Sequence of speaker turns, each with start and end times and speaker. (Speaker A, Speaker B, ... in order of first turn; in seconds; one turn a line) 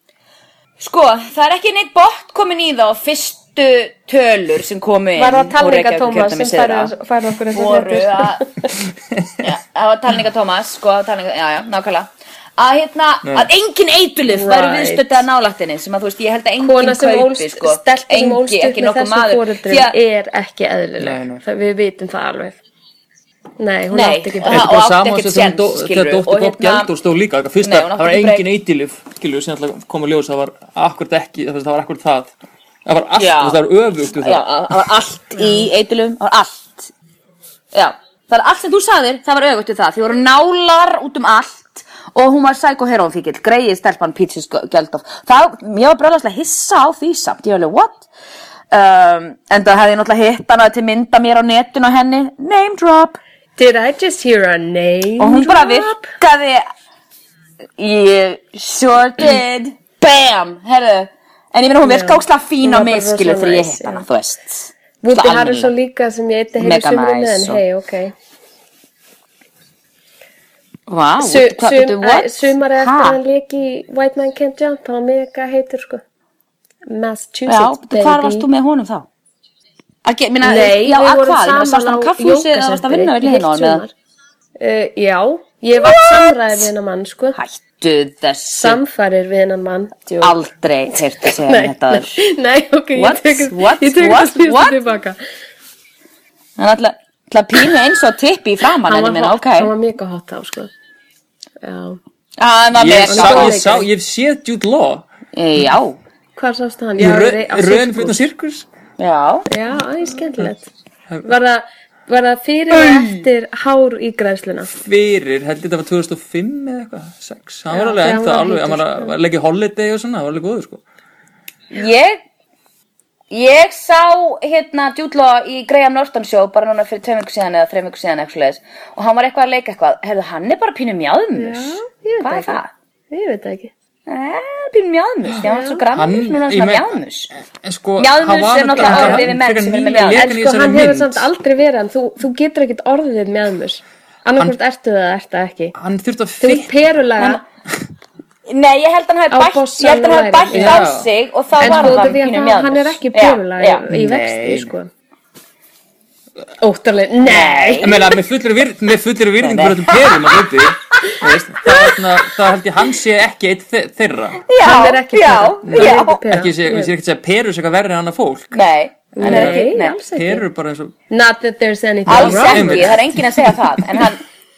Speaker A: 0.8-6.9
Speaker B: 5.2-8.7
Speaker A: 7.5-8.4
Speaker A: 9.4-19.9
Speaker C: 13.2-13.5
Speaker B: 14.3-15.3
Speaker B: 16.6-22.6
Speaker C: 21.0-21.4
Speaker B: 23.6-24.7
Speaker A: 23.9-26.9
Speaker C: 24.5-32.3
Speaker A: 27.6-28.4
Speaker C: 32.9-34.5
Speaker A: 33.2-33.6
Speaker A: 34.1-36.9
Speaker B: 35.4-35.7
Speaker A: 37.7-48.1
Speaker A: 48.7-53.2
Speaker B: 53.6-56.1
Speaker A: 55.2-56.6
Speaker A: 57.8-65.7
Speaker B: 61.8-64.0
Speaker B: 65.0-68.1
Speaker A: 66.6-67.6
Speaker A: 70.9-73.2
Speaker B: 71.2-76.0
Speaker B: 76.9-78.5
Speaker A: 77.5-79.1
Speaker A: 80.0-83.8
Speaker B: 80.4-83.9
Speaker B: 84.6-87.4
Speaker A: 85.8-86.7
Speaker A: 87.3-88.8
Speaker B: 88.5-90.3
Speaker A: 90.2-92.2
Speaker B: 90.9-95.2
Speaker A: 93.0-94.8
Speaker A: 96.6-99.7
Speaker B: 98.9-100.7
Speaker B: 101.6-102.0
Speaker A: 102.4-103.6
Speaker C: 102.8-105.0
Speaker B: 103.0-103.9
Speaker A: 105.3-106.0
Speaker B: 106.4-108.2
Speaker C: 107.0-108.7
Speaker A: 109.0-109.5
Speaker B: 109.5-110.7
Speaker B: 111.2-114.7
Speaker C: 112.7-113.2
Speaker C: 114.7-120.8
Speaker B: 117.7-119.2
Speaker A: 121.7-122.2
Speaker A: 123.3-132.7
Speaker B: 131.3-132.6
Speaker B: 133.1-133.7
Speaker A: 134.1-137.3
Speaker C: 135.3-141.3
Speaker B: 135.4-135.8
Speaker A: 138.0-140.3
Speaker B: 138.8-139.3
Speaker B: 140.1-145.8
Speaker C: 145.8-146.7
Speaker B: 146.4-147.4
Speaker A: 148.5-153.8
Speaker B: 149.3-150.9
Speaker C: 150.5-151.1
Speaker B: 151.6-154.9
Speaker C: 151.6-152.2
Speaker C: 153.9-154.7
Speaker B: 156.6-158.1
Speaker A: 157.2-158.1
Speaker C: 157.8-164.5
Speaker A: 159.4-160.4
Speaker A: 161.7-161.9
Speaker A: 164.5-166.2
Speaker B: 164.6-166.9
Speaker C: 165.7-168.6
Speaker A: 168.5-170.0
Speaker B: 169.2-170.4
Speaker C: 169.2-170.9
Speaker B: 171.1-172.9
Speaker C: 172.1-173.5
Speaker A: 172.1-174.2